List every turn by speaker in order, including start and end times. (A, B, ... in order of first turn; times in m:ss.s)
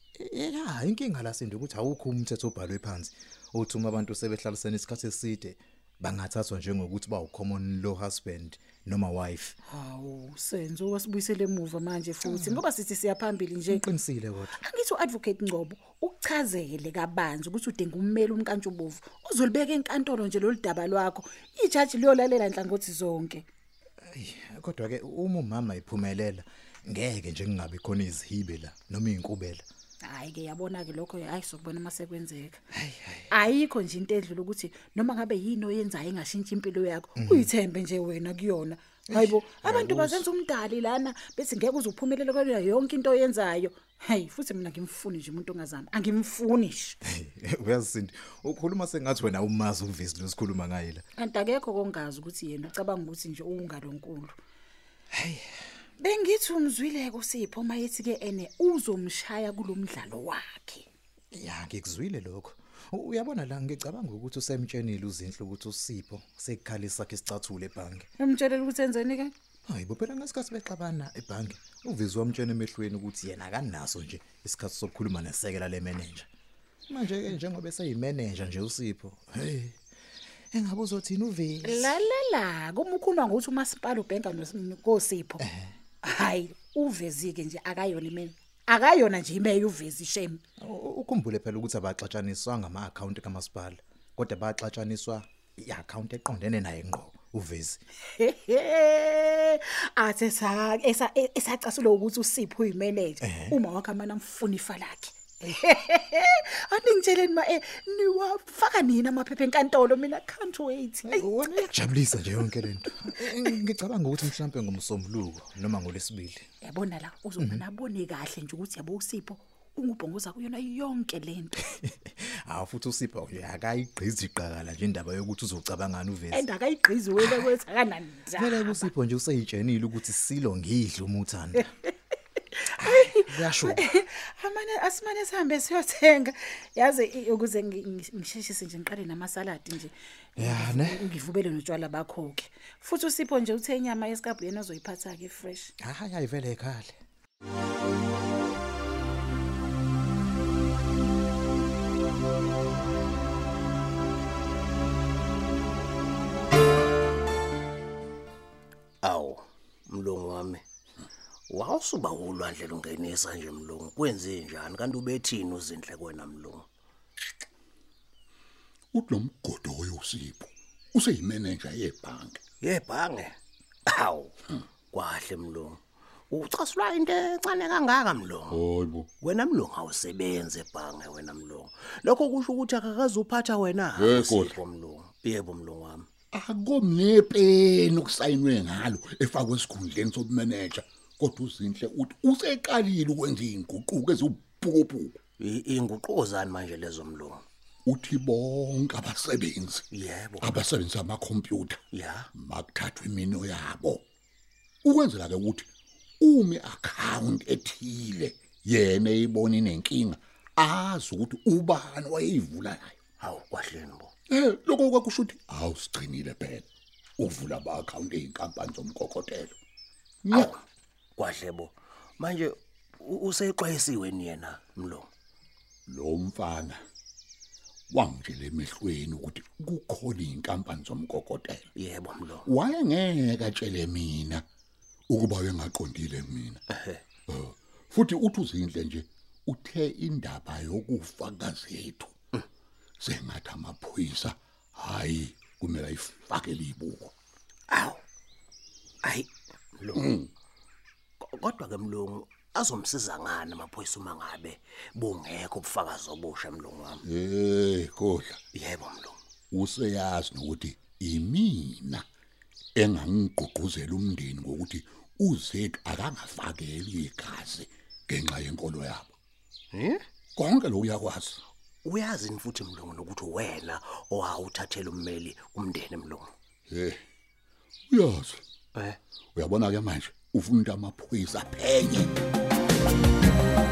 0:00.2-0:09.6 A
0:09.7-0:13.9 B
0:12.2-0:12.6 A
0:13.7-0:14.6 A
0:14.6-0:23.4 B
0:24.1-0:29.6 A
0:30.1-0:32.6 B
0:32.7-0:33.3 A
0:33.3-0:47.0 B
0:37.2-0:37.5 A
0:39.1-0:40.3 A
0:47.0-0:51.0 A
0:51.2-0:54.4 B
0:55.1-0:55.5 A
0:56.0-1:00.9 B
1:01.3-1:08.1 A
1:08.2-1:09.3 B
1:09.7-1:16.3 A
1:16.9-1:19.8 A
1:20.5-1:22.0 A
1:21.6-1:25.4 B
1:25.4-1:25.7 A
1:26.0-1:30.4 B
1:30.6-1:37.8 A
1:38.1-1:51.8 B
1:43.2-1:43.6 A
1:51.0-1:56.4 A
1:56.6-2:01.7 B
2:01.7-2:06.5 A
2:06.3-2:08.9 B
2:08.4-2:11.7 A
2:12.6-2:25.7 B
2:12.8-2:13.8 A
2:20.4-2:21.0 A
2:25.8-2:27.0 A
2:39.0-2:40.6 C
2:41.5-2:46.7 C
2:48.9-2:52.4 D
2:52.6-2:53.4 C
2:53.9-2:54.3 C
2:54.9-2:58.6 C
2:58.5-2:59.1 D
2:59.2-3:06.1 C
3:04.0-3:04.6 D
3:06.3-3:15.2 D
3:15.4-3:17.4 C
3:17.9-3:19.8 D
3:19.9-3:20.7 C
3:20.4-3:21.8 D
3:21.9-3:22.3 C
3:22.3-3:24.0 D
3:24.8-3:25.7 D
3:26.2-3:33.0 D
3:33.2-3:34.1 C
3:34.3-3:36.7 D
3:37.2-3:39.6 D
3:40.2-3:40.6 D
3:40.3-3:40.6 C
3:41.2-3:45.1 C
3:45.9-3:46.8 D
3:47.9-3:51.7 D
3:51.8-3:52.5 C
3:52.5-3:54.4 D
3:55.1-3:56.6 D
3:56.7-3:57.0 C
3:57.3-4:02.2 D
4:03.0-4:07.1 D
4:07.7-4:08.0 C
4:09.0-4:10.1 C
4:10.0-4:10.3 D
4:11.2-4:17.0 C
4:17.0-4:18.4 D
4:18.5-4:19.2 C
4:19.5-4:22.0 D
4:22.8-4:29.1 D
4:29.7-4:30.0 C
4:30.4-4:31.4 D
4:31.8-4:36.3 C
4:36.7-4:37.0 D
4:37.9-4:38.4 D
4:39.4-4:42.1 D